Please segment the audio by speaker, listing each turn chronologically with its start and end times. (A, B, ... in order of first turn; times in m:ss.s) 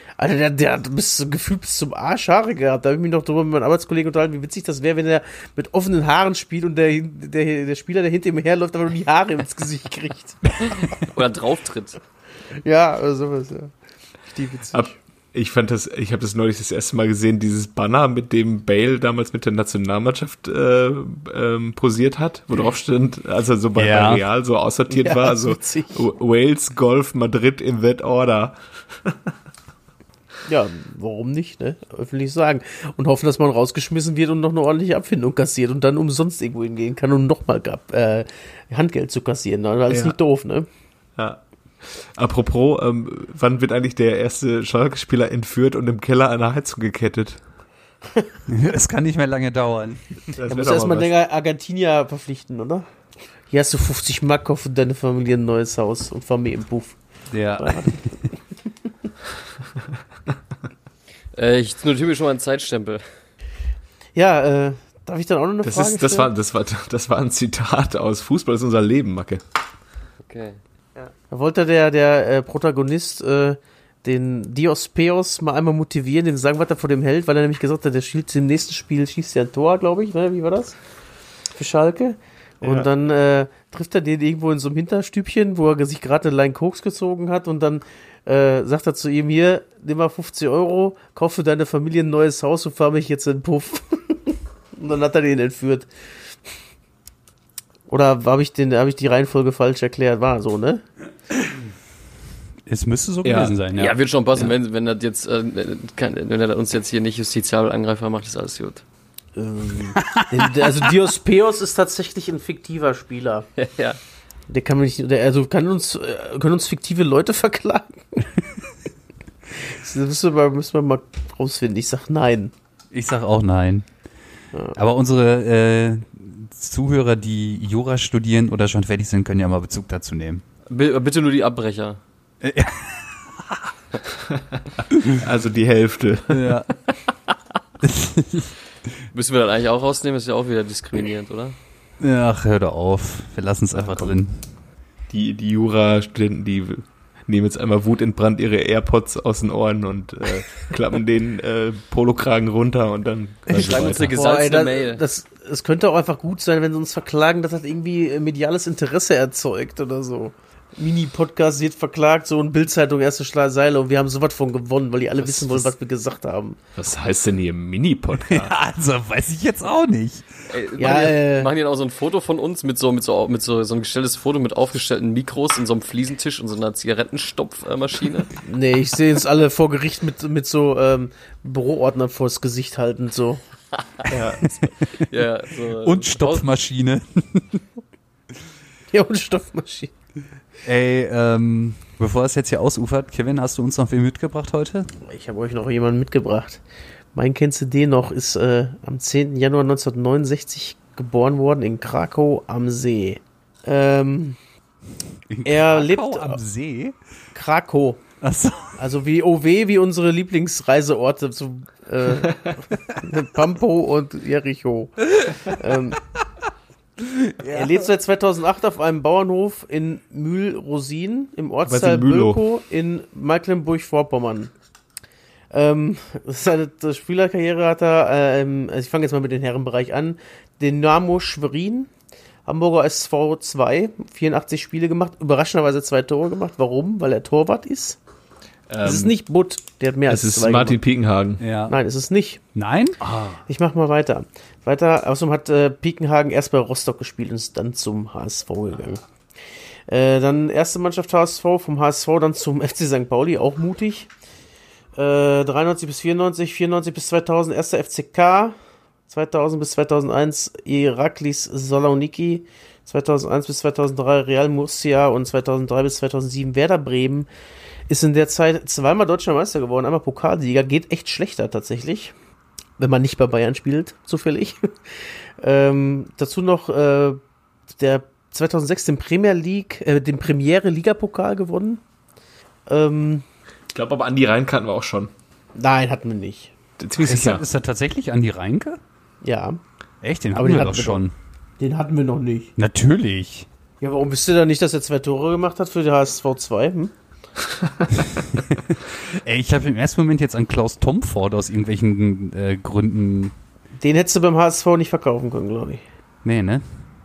0:00.2-0:10.7 A
0:10.7-0:12.0 B
0:12.6-0:13.7 A
0:14.3-0:14.9 A
0:14.7-0:29.3 C
0:23.8-0:24.2 D
0:24.9-0:26.0 A
0:30.5-0:40.7 A
0:39.9-0:40.2 C
0:41.2-0:47.4 C
0:48.5-0:50.4 D
0:50.4-0:51.1 C
0:50.5-0:52.9 A
0:53.5-0:57.0 A
0:57.3-0:58.2 D
0:57.6-0:58.4 A
1:01.3-1:03.1 B
1:04.2-1:06.3 A
1:05.6-1:09.4 C
1:10.2-1:10.6 B
1:11.0-1:20.8 A
1:21.6-1:35.9 A
1:22.6-1:22.9 C
1:37.9-1:40.8 A
1:42.7-1:44.0 D
1:43.2-1:43.6 C
1:43.7-1:48.8 B
1:49.4-1:53.5 A
1:49.9-1:50.7 D
1:53.6-1:54.0 B
1:54.5-1:58.4 A
1:59.5-2:02.5 A
2:02.9-2:03.9 D
2:04.7-2:10.4 D
2:10.7-2:12.0 B
2:12.4-2:13.7 D
2:15.0-2:16.6 C
2:16.3-2:16.8 D
2:17.8-2:18.6 D
2:19.1-2:21.6 B
2:22.0-2:24.4 D
2:23.7-2:24.2 C
2:25.1-2:34.2 C
2:33.5-2:35.0 B
2:34.1-2:46.6 A
2:45.3-2:45.7 D
2:46.8-2:48.5 C
2:48.2-2:50.5 D
2:50.5-2:58.3 B
2:50.8-2:51.5 A
2:58.4-3:03.4 A
3:04.1-3:06.4 B
3:04.1-3:04.5 C
3:04.8-3:07.7 D
3:08.9-3:09.9 A
3:10.6-3:14.9 D
3:15.1-3:16.6 A
3:17.1-3:24.4 A
3:25.3-3:27.0 D
3:25.4-3:26.4 A
3:27.3-3:28.1 A
3:28.2-3:28.8 D
3:28.8-3:36.0 A
3:37.0-3:37.9 D
3:37.4-3:44.5 A
3:41.7-3:42.4 C
3:45.5-3:51.9 A
3:52.5-3:58.0 A
3:58.7-3:59.1 C
3:58.8-4:00.8 A
4:00.1-4:01.4 C
4:01.4-4:01.8 D
4:01.7-4:02.4 A
4:02.6-4:03.0 D
4:03.0-4:03.4 C
4:03.5-4:09.1 A
4:09.9-4:14.1 A
4:15.0-4:18.6 A
4:19.1-4:27.3 A
4:27.9-4:32.1 A
4:32.8-4:37.2 A
4:37.7-4:41.8 A
4:42.7-4:43.2 A
4:43.7-4:45.1 C
4:45.6-4:46.5 A
4:46.8-4:47.4 C
4:47.0-4:48.8 D
4:49.2-4:49.6 A
4:50.0-4:51.1 D
4:50.4-4:51.0 A
4:51.6-4:52.5 A
4:52.6-4:53.5 D
4:53.8-4:56.9 A
4:58.4-5:03.4 D
5:03.8-5:05.8 A
5:06.2-5:06.9 D